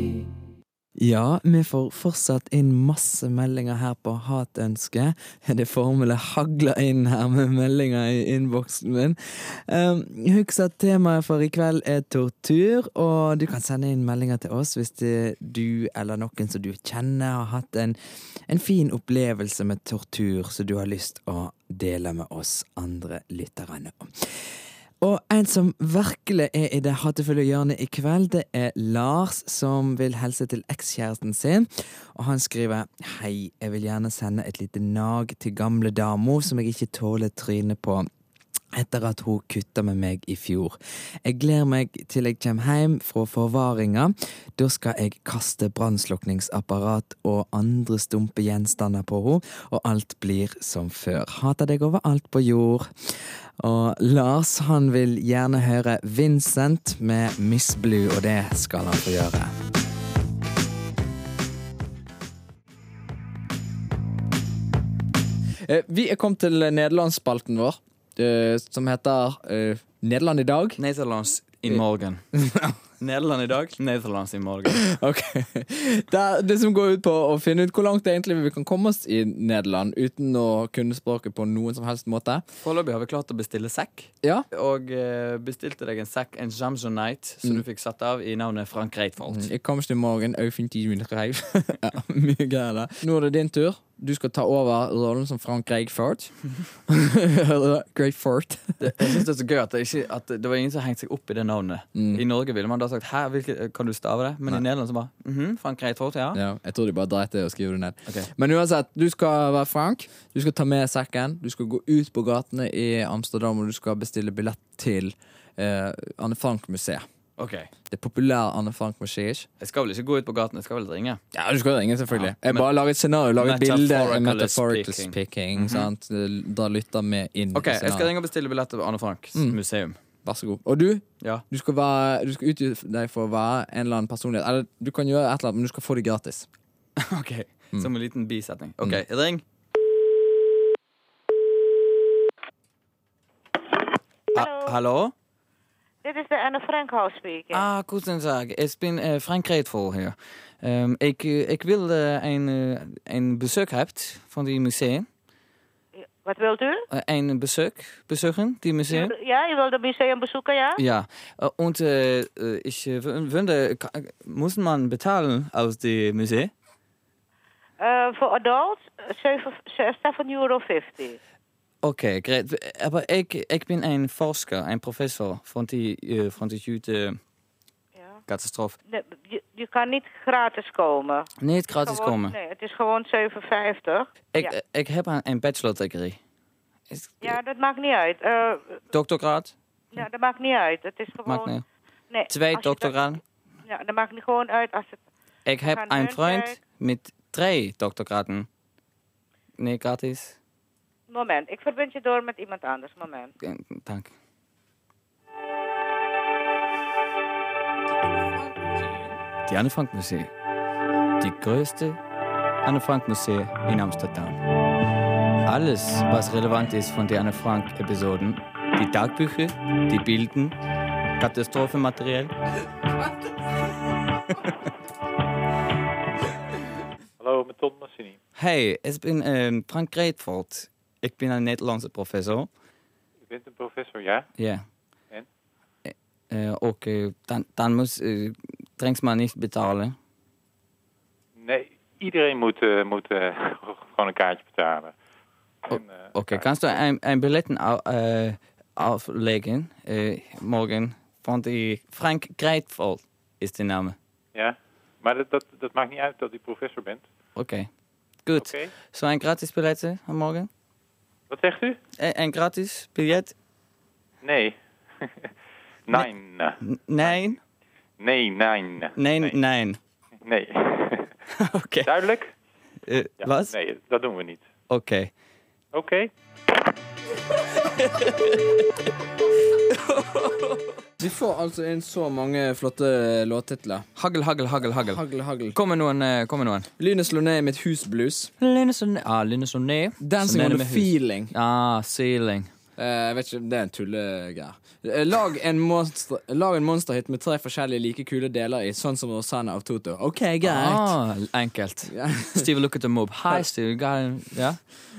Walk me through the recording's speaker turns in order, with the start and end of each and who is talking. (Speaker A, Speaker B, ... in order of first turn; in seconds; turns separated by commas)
Speaker A: 1.0-18.0, Speaker A: 18.5-24.5, Speaker A: 25.0-38.1, Speaker A: 38.7-52.9, Speaker A: 53.6-59.5, Speaker A: 65.6-70.8, Speaker B: 70.8-72.2, Speaker A: 72.3-72.8, Speaker B: 73.0-74.8, Speaker A: 74.7-82.4, Speaker B: 82.6-89.5, Speaker A: 89.3-96.3, Speaker A: 96.9-99.2, Speaker B: 98.8-106.4, Speaker A: 101.9-102.2, Speaker A: 106.3-117.0, Speaker B: 117.4-117.7, Speaker A: 117.9-119.5, Speaker B: 119.6-121.2, Speaker A: 121.3-128.1, Speaker B: 122.1-122.7, Speaker B: 123.4-125.9, Speaker B: 127.5-130.0, Speaker A: 130.2-136.5, Speaker B: 137.0-139.4, Speaker B: 144.3-145.1, Speaker C: 144.3-144.7, Speaker C: 146.0-147.6, Speaker B: 147.5-155.1, Speaker C: 156.2-156.8, Speaker B: 156.9-159.1, Speaker C: 158.9-160.8, Speaker B: 160.8-166.5, Speaker C: 167.8-171.2, Speaker B: 171.8-177.2, Speaker B: 178.3-178.8, Speaker C: 178.9-184.5, Speaker B: 181.4-182.3, Speaker B: 184.3-186.2, Speaker B: 186.9-187.4, Speaker C: 187.2-188.8, Speaker B: 188.9-189.5, Speaker C: 189.9-191.5, Speaker B: 191.2-191.6, Speaker C: 192.1-193.0, Speaker B: 192.3-193.2, Speaker C: 193.7-195.0, Speaker B: 195.4-198.5, Speaker C: 195.7-196.6, Speaker B: 199.6-200.4, Speaker C: 201.1-203.3, Speaker B: 203.4-204.1, Speaker B: 209.4-210.3, Speaker B: 211.2-212.0, Speaker B: 212.6-214.4, Speaker B: 215.4-220.5, Speaker B: 221.2-222.3, Speaker D: 227.2-228.2, Speaker B: 228.4-232.5, Speaker D: 233.3-234.3, Speaker B: 234.4-234.6, Speaker B: 235.8-239.9, Speaker D: 241.4-244.9, Speaker D: 245.7-246.8, Speaker B: 245.7-254.0, Speaker D: 254.3-257.0, Speaker B: 257.3-257.7, Speaker B: 258.2-260.5, Speaker D: 258.3-258.7, Speaker D: 261.3-261.8, Speaker B: 262.0-263.3, Speaker D: 264.2-265.3, Speaker D: 265.9-267.1, Speaker B: 266.6-267.4, Speaker D: 268.0-269.4, Speaker B: 268.9-269.8, Speaker D: 270.2-271.1, Speaker B: 271.4-271.9, Speaker D: 271.8-272.3, Speaker B: 272.9-273.5, Speaker D: 273.2-274.4, Speaker B: 274.7-275.1, Speaker D: 275.7-276.1, Speaker B: 277.6-278.6, Speaker B: 279.7-280.6, Speaker A: 281.0-283.9, Speaker B: 283.9-285.0, Speaker A: 284.8-285.6, Speaker B: 285.5-286.7, Speaker A: 286.8-288.3, Speaker B: 288.4-292.5, Speaker A: 290.0-291.3, Speaker A: 292.8-300.9, Speaker B: 300.4-304.6, Speaker A: 301.9-302.5